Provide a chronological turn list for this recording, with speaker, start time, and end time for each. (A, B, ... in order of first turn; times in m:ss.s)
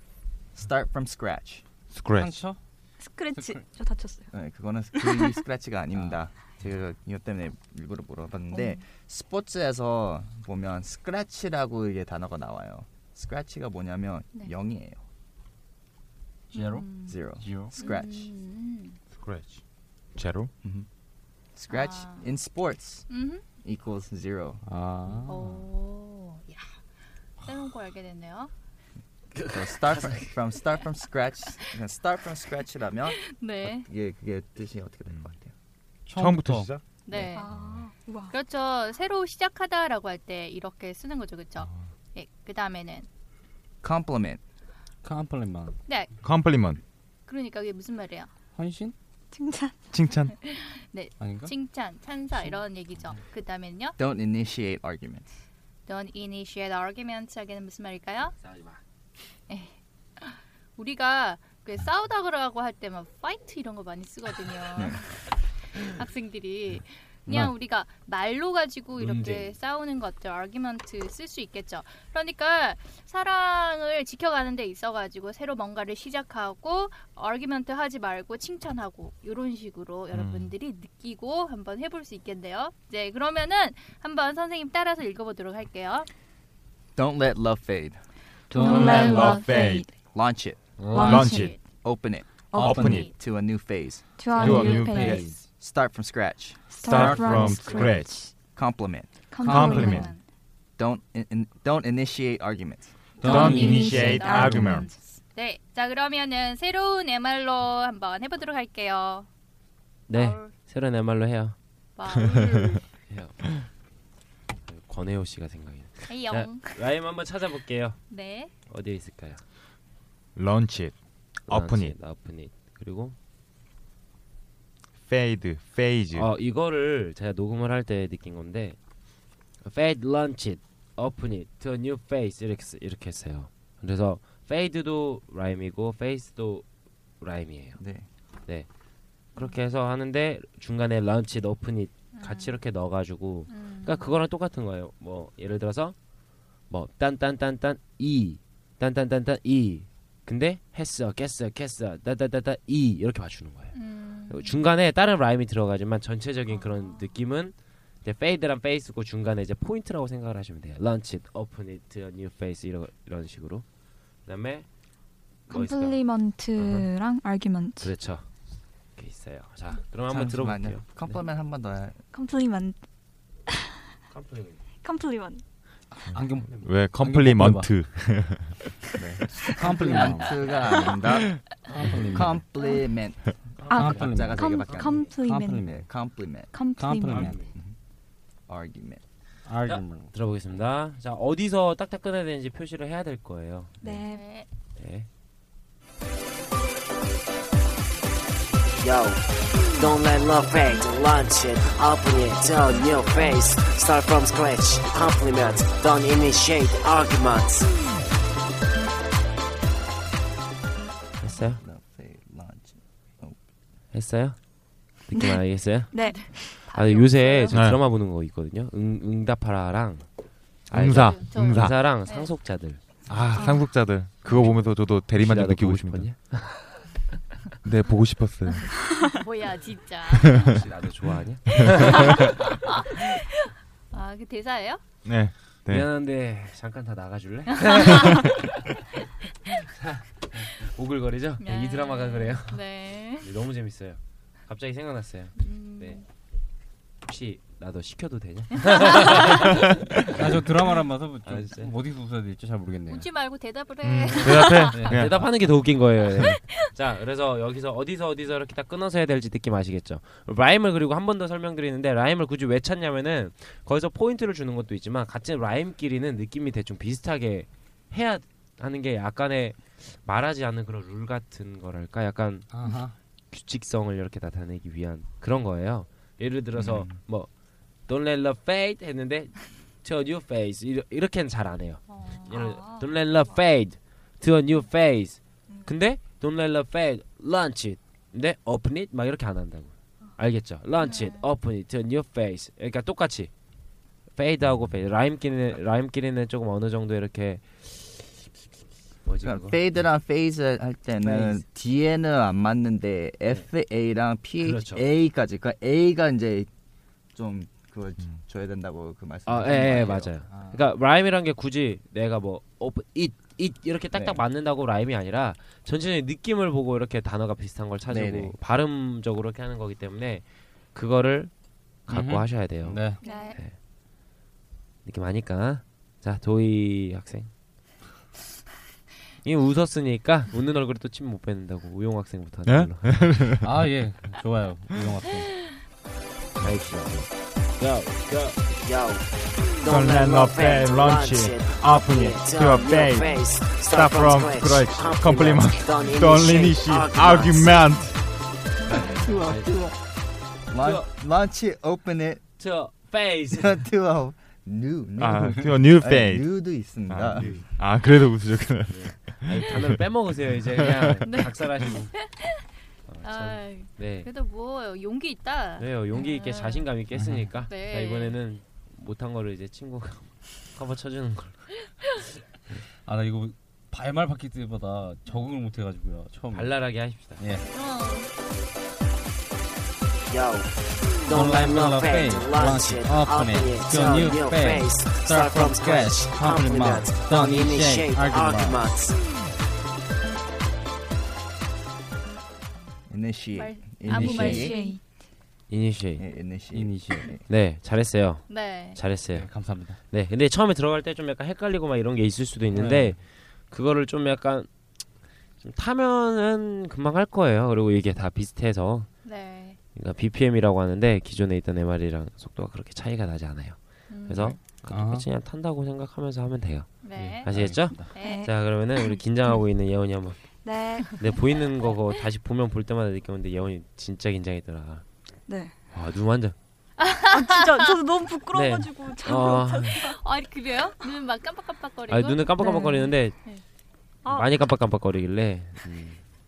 0:00.6-0:01.6 A
0:01.9-0:02.4 B
0:02.2-0:02.6 C
0:03.0-0:04.3 D
0:03.3-0:03.6 C
0:04.3-0:15.0 A
0:04.9-0:05.4 D
0:08.5-0:08.8 D
0:16.5-0:17.7 C
0:16.5-0:17.2 E
0:17.0-0:18.3 A
0:17.8-0:19.0 E
0:19.2-0:19.6 B
0:20.2-0:20.5 B
0:21.6-0:23.1 A
0:21.7-0:22.3 E
0:23.1-0:23.4 E
0:23.6-0:24.6 A
0:24.6-0:25.6 C
0:25.2-0:26.8 E
0:27.4-0:28.5 E
0:29.5-0:35.5 A
0:33.1-0:33.9 E
0:36.1-0:36.7 C
0:36.1-0:36.8 B
0:37.1-0:37.5 E
0:37.3-0:38.4 D
0:37.5-0:37.9 B
0:38.3-0:43.1 E
0:43.8-0:44.4 A
0:45.0-0:45.8 C
0:45.9-0:46.1 E
0:46.2-0:46.8 B
0:47.3-0:48.3 E
0:48.6-0:49.0 C
0:49.3-0:49.8 D
0:49.9-0:50.3 B
0:50.4-0:54.0 E
0:51.2-0:51.5 C
0:54.0-0:55.3 A
0:55.9-0:58.4 E
0:58.4-0:58.8 F
0:59.5-1:05.2 E
1:05.9-1:26.1 E
1:07.3-1:07.5 C
1:09.0-1:09.5 F
1:20.2-1:20.5 B
1:27.0-1:28.0 A
1:28.5-1:29.9 D
1:28.5-1:29.3 C
1:28.6-1:29.6 E
1:28.6-1:29.9 B
1:30.1-1:30.6 A
1:30.8-1:31.2 F
1:30.9-1:31.6 D
1:31.0-1:31.6 B
1:31.2-1:31.6 E
1:31.8-1:34.0 A
1:32.5-1:32.8 D
1:32.5-1:33.0 C
1:32.6-1:33.1 B
1:34.2-1:35.3 D
1:34.4-1:35.4 C
1:34.4-1:35.2 B
1:35.3-1:36.6 A
1:36.7-1:38.3 D
1:36.8-1:38.2 B
1:36.9-1:37.9 C
1:38.5-1:39.1 A
1:39.3-1:40.2 D
1:39.4-1:40.0 C
1:39.4-1:40.1 B
1:39.5-1:40.2 E
1:40.8-1:42.9 A
1:43.2-1:43.8 C
1:43.2-1:49.3 E
1:43.2-1:44.9 B
1:43.2-1:44.9 D
1:50.1-1:51.6 F
1:50.1-1:50.5 E
1:52.0-1:52.9 E
1:53.1-1:53.4 F
1:54.7-1:58.0 F
1:56.1-1:56.8 E
1:58.1-1:58.5 E
1:58.7-1:59.4 F
2:00.4-2:02.0 B
2:01.5-2:03.2 F
2:05.0-2:06.3 B
2:06.1-2:08.8 F
2:09.6-2:16.6 F
2:17.2-2:17.8 F
2:17.8-2:18.1 A
2:19.4-2:26.0 F
2:22.1-2:22.6 E
2:23.5-2:24.1 E
2:26.7-2:43.6 F
2:33.7-2:34.6 E
2:44.3-2:44.7 F
2:45.5-2:46.9 F
2:45.5-2:48.0 D
2:47.8-2:48.3 F
2:49.0-2:51.2 F
2:50.1-2:52.0 A
2:52.1-2:52.8 D
2:53.5-2:53.8 D
2:54.1-2:54.6 F
2:54.8-2:55.4 D
2:55.9-2:57.8 C
2:56.1-2:58.6 B
2:58.9-3:01.4 A
2:59.6-3:00.6 C
3:01.7-3:02.4 C
3:02.1-3:03.3 A
3:03.6-3:04.2 F
3:03.7-3:05.7 D
3:03.7-3:05.9 C
3:03.8-3:07.8 A
3:06.3-3:07.4 D
3:06.8-3:07.5 C
3:08.5-3:09.0 A
3:09.4-3:10.1 C
3:09.6-3:13.8 F
3:13.8-3:14.3 D
3:14.1-3:14.5 E
3:14.8-3:15.1 F
3:18.8-3:27.7 G
3:31.2-3:31.6 F
3:31.4-3:33.4 A
3:33.9-3:34.4 F
3:35.0-3:40.1 F
3:35.9-3:36.6 D
3:36.0-3:37.6 E
3:37.5-3:37.8 B
3:40.7-3:42.8 F
3:40.7-3:41.8 B
3:40.9-3:42.3 E
3:43.1-3:46.1 B
3:43.3-3:43.6 D
3:45.2-3:46.8 F
3:47.6-3:48.7 B
3:48.5-3:50.4 E
3:50.2-3:50.6 B
3:50.5-3:52.5 F
3:52.1-3:53.2 E
3:53.9-3:54.8 E
3:55.0-3:55.9 B
3:55.7-3:58.3 F
3:57.8-3:58.3 E
3:59.8-4:02.6 F
4:01.4-4:03.3 E
4:03.2-4:06.0 F
4:05.4-4:06.0 E
4:07.1-4:10.4 F
4:10.0-4:13.1 C
4:11.3-4:11.8 F
4:12.9-4:14.8 E
4:13.8-4:15.3 B
4:14.2-4:32.5 F
4:14.7-4:15.2 C
4:16.2-4:16.7 E
4:32.5-4:33.0 C
4:33.3-4:37.3 F
4:36.6-4:36.9 A
4:37.9-4:53.3 F
4:41.9-4:42.3 E
4:42.2-4:43.4 D
4:45.5-4:45.8 D
4:50.8-4:51.3 E
4:54.1-4:58.0 F
4:54.4-4:54.8 B
4:59.0-4:59.6 F
4:59.2-5:06.5 A
5:01.0-5:01.4 C
5:04.4-5:04.9 F
5:07.2-5:10.2 A
5:09.3-5:21.3 F
5:10.3-5:10.6 C
5:13.9-5:14.2 A
5:17.9-5:18.4 A
5:21.9-5:23.6 F
5:21.9-5:23.0 C
5:23.0-5:23.4 E
5:23.0-5:23.3 D
5:24.9-5:27.3 F
5:29.2-5:33.0 F
5:32.5-5:33.5 B
5:33.4-5:35.5 C
5:36.4-5:38.5 F
5:36.4-5:36.7 B
5:38.6-5:47.7 G
5:39.6-5:48.0 B
5:48.6-5:49.6 F
5:48.8-5:49.8 A
5:50.5-5:52.2 A
5:50.6-5:50.9 F
5:52.4-5:53.7 F
5:53.3-5:57.4 A
5:55.0-5:59.8 B
5:57.1-5:57.5 F
5:58.7-6:02.2 F
6:01.1-6:02.4 E
6:02.9-6:04.1 F
6:03.0-6:06.7 E
6:05.6-6:11.5 F
6:06.9-6:07.3 C
6:07.5-6:08.2 E
6:12.8-6:17.4 C
6:16.3-6:17.3 F
6:17.4-6:18.1 E
6:20.1-6:20.5 G
6:21.1-6:28.9 G
6:21.1-6:28.8 C
6:32.9-6:34.6 A
6:33.3-6:34.8 E
6:33.9-6:34.3 C
6:33.9-6:34.8 D
6:35.5-6:36.1 F
6:36.0-6:37.2 A
6:36.5-6:37.1 C
6:37.3-6:44.5 F
6:38.3-6:38.8 E
6:39.1-6:39.8 C
6:42.5-6:43.0 C
6:45.4-6:48.9 F
6:49.0-6:49.6 E
6:49.8-7:00.2 F
6:53.9-6:54.4 E
6:54.7-6:55.1 C
6:56.8-6:58.3 E
6:57.0-6:57.9 C
6:58.0-6:59.0 D
7:00.4-7:01.0 D
7:00.9-7:04.8 F
7:05.3-7:05.5 D
7:05.7-7:06.4 F
7:06.8-7:07.8 E
7:07.0-7:10.0 D
7:08.3-7:10.0 F
7:09.8-7:12.3 E
7:11.9-7:13.3 F
7:12.4-7:13.2 D
7:14.0-7:14.4 D
7:14.0-7:16.0 F
7:15.6-7:15.9 C